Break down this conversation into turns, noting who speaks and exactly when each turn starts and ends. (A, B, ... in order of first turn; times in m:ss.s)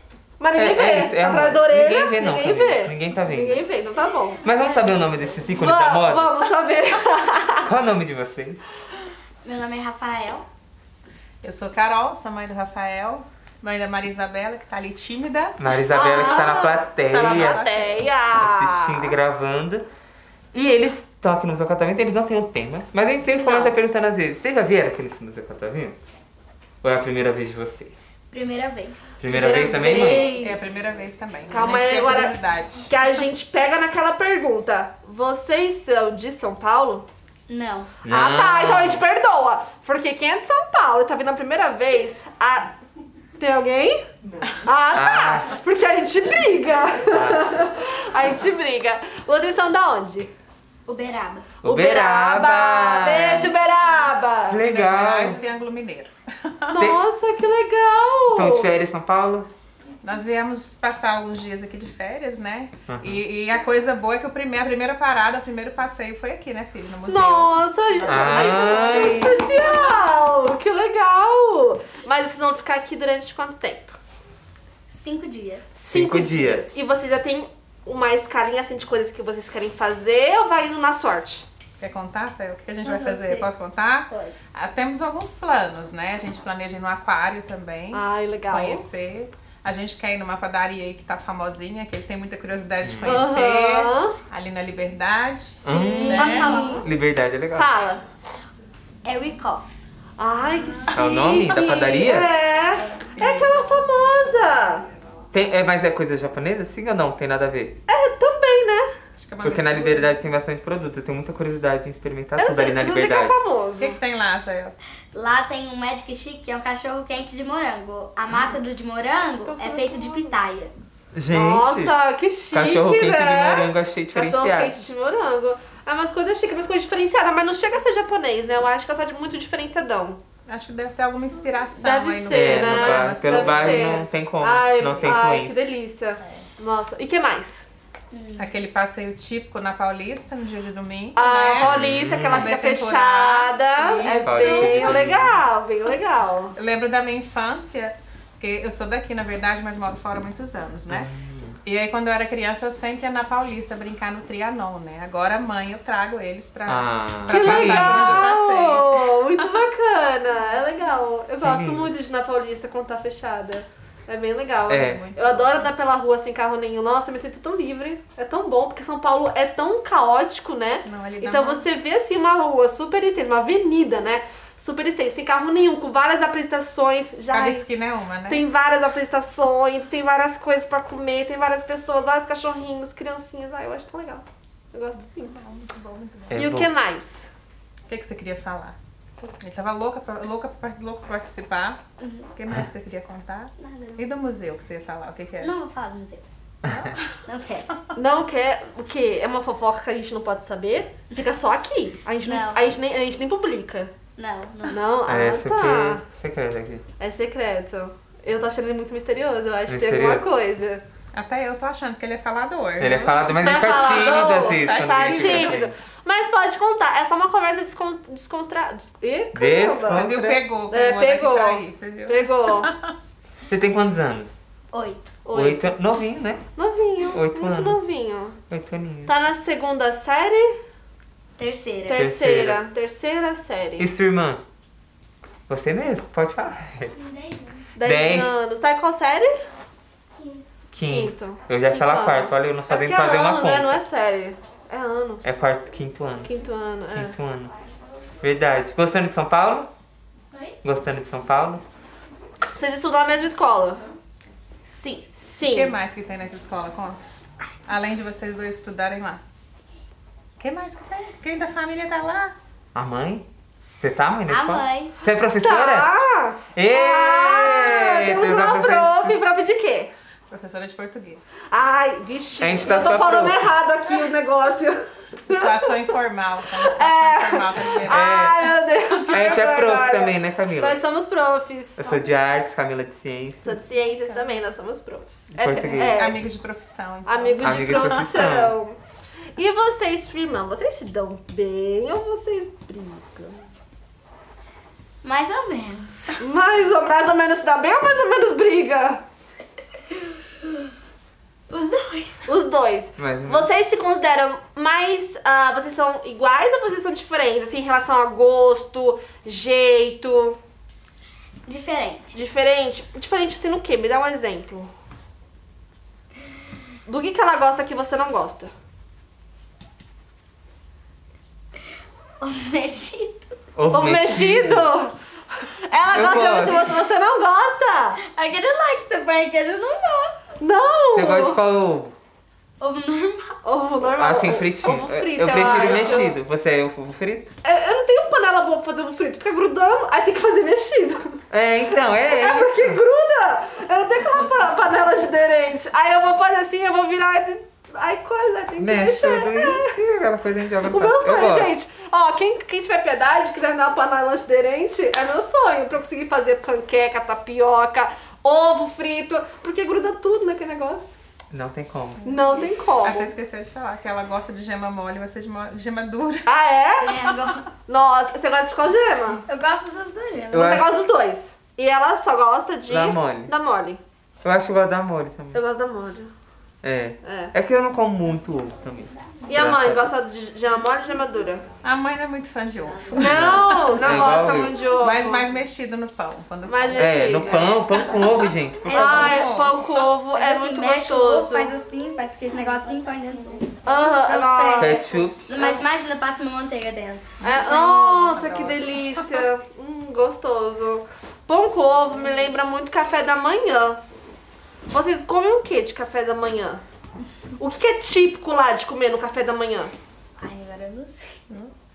0:00.4-0:04.4 A
0:00.5-0:03.6 B
0:04.4-0:06.3 B
0:05.5-0:07.7 A
0:07.6-0:08.6 B
0:09.4-0:10.4 C
0:11.4-0:15.6 D
0:15.6-0:17.6 B
0:15.8-0:19.1 A
0:16.1-0:16.6 D
0:17.1-0:18.0 D
0:18.4-0:19.8 B
0:20.5-0:26.0 B
0:26.8-0:27.9 B
0:28.3-0:30.7 C
0:29.2-0:30.3 B
0:29.3-0:30.2 A
0:29.8-0:33.0 D
0:31.5-0:37.1 A
0:37.5-0:37.9 C
0:38.0-0:42.7 A
0:38.0-0:39.0 B
0:43.4-0:44.0 A
0:44.6-0:50.3 A
0:44.9-0:45.5 B
0:47.1-0:47.4 B
0:50.8-0:51.4 C
0:51.6-0:53.5 B
0:51.6-0:54.6 A
0:54.4-0:55.4 B
0:54.6-0:56.1 D
0:56.7-0:58.7 A
0:56.8-0:57.0 B
0:58.3-0:59.5 B
1:00.0-1:09.9 D
1:02.9-1:03.2 B
1:07.0-1:14.0 A
1:08.0-1:09.4 B
1:14.9-1:15.6 C
1:15.8-1:16.6 B
1:15.9-1:21.4 A
1:21.8-1:36.8 D
1:22.8-1:23.5 C
1:24.1-1:24.4 C
1:27.9-1:28.9 A
1:32.8-1:33.2 B
1:33.0-1:34.1 A
1:35.6-1:37.7 B
1:35.6-1:36.9 A
1:36.0-1:36.8 C
1:37.5-1:38.0 A
1:39.0-1:39.7 C
1:40.2-1:44.8 A
1:40.9-1:42.3 B
1:42.7-1:43.3 C
1:43.2-1:43.6 D
1:45.3-1:47.8 B
1:47.9-1:48.9 A
1:49.2-1:50.2 D
1:49.4-1:53.4 B
1:52.4-1:54.0 A
1:53.8-1:54.7 D
1:55.1-2:00.7 C
1:59.5-2:00.3 D
2:01.1-2:02.0 B
2:01.3-2:10.2 A
2:02.5-2:04.8 B
2:10.5-2:14.3 D
2:11.8-2:17.6 A
2:12.3-2:15.6 B
2:18.1-2:18.5 C
2:18.4-2:25.2 D
2:21.1-2:26.5 A
2:21.6-2:22.5 B
2:24.2-2:25.4 B
2:26.5-2:31.1 D
2:30.9-2:31.6 B
2:31.6-2:39.5 D
2:36.6-2:38.3 B
2:37.3-2:57.7 A
2:41.4-2:41.9 B
2:44.7-2:45.1 B
2:44.7-2:45.7 D
2:50.8-2:51.7 D
2:57.3-2:58.4 D
2:58.3-3:05.4 A
3:05.0-3:06.4 D
3:06.3-3:06.7 B
3:06.3-3:07.3 A
3:07.9-3:08.8 D
3:09.3-3:11.8 D
3:12.0-3:12.3 C
3:12.3-3:15.5 D
3:13.6-3:14.0 C
3:15.4-3:16.2 C
3:16.7-3:17.2 D
3:17.2-3:17.7 C
3:17.9-3:23.9 A
3:22.2-3:22.7 C
3:24.2-3:24.8 C
3:24.7-3:26.0 A
3:25.1-3:26.8 B
3:27.0-3:30.8 A
3:29.7-3:30.2 B
3:31.1-3:35.6 D
3:32.8-3:35.7 B
3:33.3-3:42.7 A
3:39.3-3:40.3 B
3:39.9-3:42.9 D
3:43.5-3:44.4 B
3:44.7-3:45.1 C
3:45.2-3:45.7 A
3:45.3-3:46.4 B
3:46.6-3:48.4 A
3:47.1-3:47.8 B
3:48.5-3:49.1 B
3:49.0-3:50.6 A
3:51.4-3:52.0 C
3:51.8-3:53.9 A
3:51.9-3:52.6 B
3:53.8-3:54.4 B
3:55.5-3:56.9 B
3:56.9-3:57.6 C
3:57.8-3:59.4 A
3:57.8-3:58.3 B
4:00.2-4:00.4 C
4:00.7-4:03.8 B
4:00.8-4:05.2 A
4:05.2-4:06.3 B
4:06.2-4:07.1 A
4:06.9-4:07.5 B
4:08.2-4:09.7 B
4:10.6-4:11.6 B
4:12.5-4:13.9 A
4:14.7-4:15.7 A
4:15.4-4:17.0 D
4:17.6-4:19.2 D
4:20.4-4:22.3 D
4:22.7-4:23.2 B
4:23.8-4:25.9 B
4:24.3-4:24.9 C
4:25.4-4:29.9 A
4:26.5-4:29.1 B
4:30.3-4:31.4 D
4:31.5-4:35.9 A
4:32.4-4:33.4 B
4:35.3-4:38.0 D
4:36.6-4:42.2 A
4:37.8-4:38.4 B
4:38.8-4:39.2 D
4:39.1-4:40.8 B
4:41.8-4:43.4 B
4:43.4-4:46.2 A
4:45.3-4:46.0 B
4:45.7-4:48.3 D
4:47.0-4:48.8 A
4:47.4-4:48.5 B
4:49.4-4:53.5 A
4:55.0-4:56.2 C
4:56.2-4:59.0 A
5:01.5-5:02.3 C
5:02.2-5:10.4 A
5:03.0-5:03.5 B
5:11.4-5:12.2 C
5:12.1-5:14.7 A
5:16.8-5:18.5 A
5:22.2-5:23.3 C
5:23.6-5:24.7 B
5:23.7-5:28.0 A
5:25.9-5:26.7 B
5:28.0-5:30.2 C
5:30.4-5:31.4 A
5:30.9-5:31.9 B
5:32.6-5:33.4 C
5:33.4-5:36.2 A
5:34.0-5:37.3 B
5:37.4-5:41.2 A
5:41.3-5:42.8 B
5:42.0-5:49.7 A
5:48.6-5:51.5 B
5:50.6-6:00.9 A
6:01.3-6:02.0 B
6:02.0-6:03.1 A
6:02.0-6:06.3 D
6:06.2-6:07.0 A
6:06.8-6:07.5 C
6:07.7-6:09.2 A
6:09.3-6:10.6 C
6:10.3-6:10.8 B
6:10.3-6:13.8 A
6:12.7-6:13.3 B
6:14.2-6:15.4 B
6:15.3-6:16.1 A
6:16.6-6:19.9 B
6:17.0-6:17.3 A
6:19.3-6:21.5 A
6:21.6-6:24.0 D
6:22.9-6:25.3 A
6:23.0-6:24.6 B
6:24.8-6:27.9 D
6:26.4-6:27.6 A
6:26.8-6:29.3 B
6:28.6-6:29.6 D
6:28.7-6:31.5 A
6:30.1-6:37.1 C
6:33.6-6:35.6 A
6:34.6-6:35.2 B
6:37.2-6:39.2 D
6:37.2-6:43.8 A
6:44.7-6:46.6 A
6:47.4-6:49.7 A
6:50.2-6:51.0 C